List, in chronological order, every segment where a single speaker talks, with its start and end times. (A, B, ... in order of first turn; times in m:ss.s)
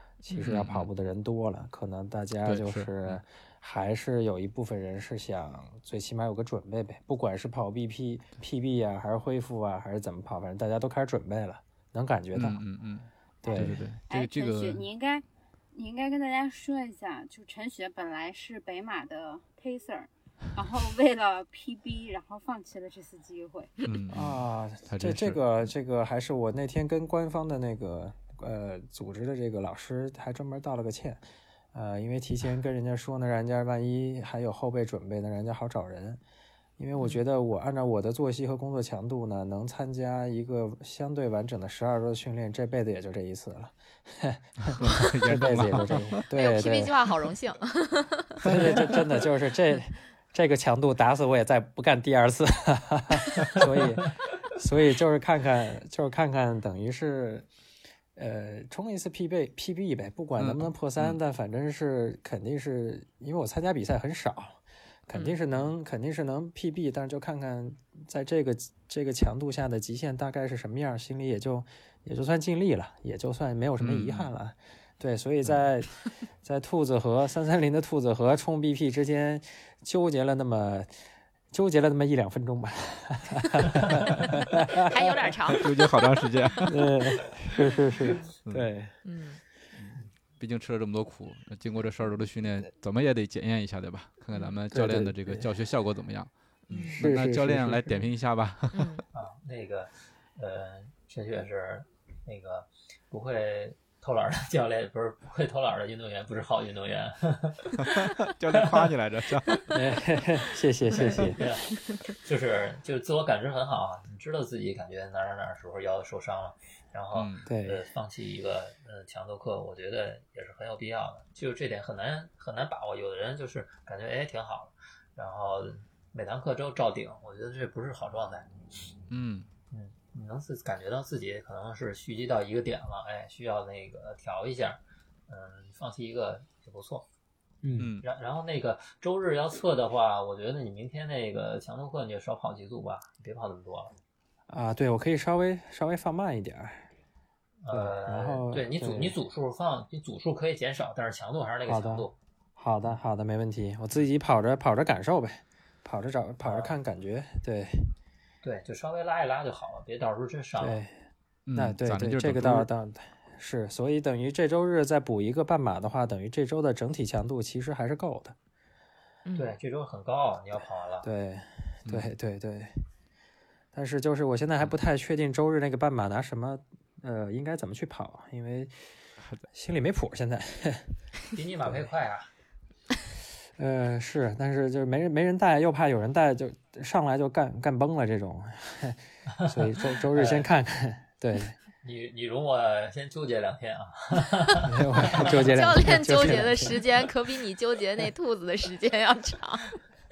0:00.2-0:12.6 A
0:00.3-0:00.9 B
0:02.4-0:03.2 B
0:12.3-0:14.8 B
0:13.4-0:13.8 A
0:13.4-0:23.7 C
0:23.8-0:25.6 B
0:24.1-0:36.2 A
0:36.8-0:47.1 A
0:44.7-0:46.2 B
0:46.3-0:48.5 D
0:48.4-0:57.5 A
0:58.2-1:15.9 A
1:00.4-1:01.2 B
1:05.1-1:05.4 D
1:13.8-1:14.3 B
1:16.4-1:20.9 A
1:21.5-1:25.0 A
1:24.9-1:26.1 D
1:25.6-1:26.9 B
1:26.7-1:29.0 A
1:29.0-1:29.4 D
1:29.8-1:39.0 B
1:34.3-1:34.6 D
1:34.7-1:35.5 A
1:36.7-1:37.0 D
1:37.0-1:38.0 A
1:38.7-1:39.0 D
1:39.1-1:47.9 E
1:48.2-1:49.5 B
1:49.7-1:51.4 A
1:50.9-1:51.7 E
1:52.2-2:08.5 E
1:57.1-1:57.5 B
1:57.5-1:57.8 A
2:09.1-2:09.5 B
2:09.7-2:17.1 E
2:17.6-2:17.9 A
2:17.8-2:18.0 B
2:18.0-2:23.9 E
2:24.5-2:26.9 A
2:27.6-2:32.2 E
2:27.7-2:29.2 A
2:31.7-2:37.9 A
2:36.4-2:36.7 E
2:38.4-2:40.8 E
2:40.6-2:48.4 A
2:41.5-2:42.7 B
2:49.3-2:49.5 D
2:49.4-2:51.1 E
2:51.0-2:52.7 A
2:53.7-2:58.7 A
2:59.5-3:00.9 A
3:01.3-3:02.3 E
3:03.6-3:11.6 A
3:10.1-3:10.5 E
3:11.8-3:14.6 E
3:14.7-3:16.8 A
3:15.4-3:19.8 D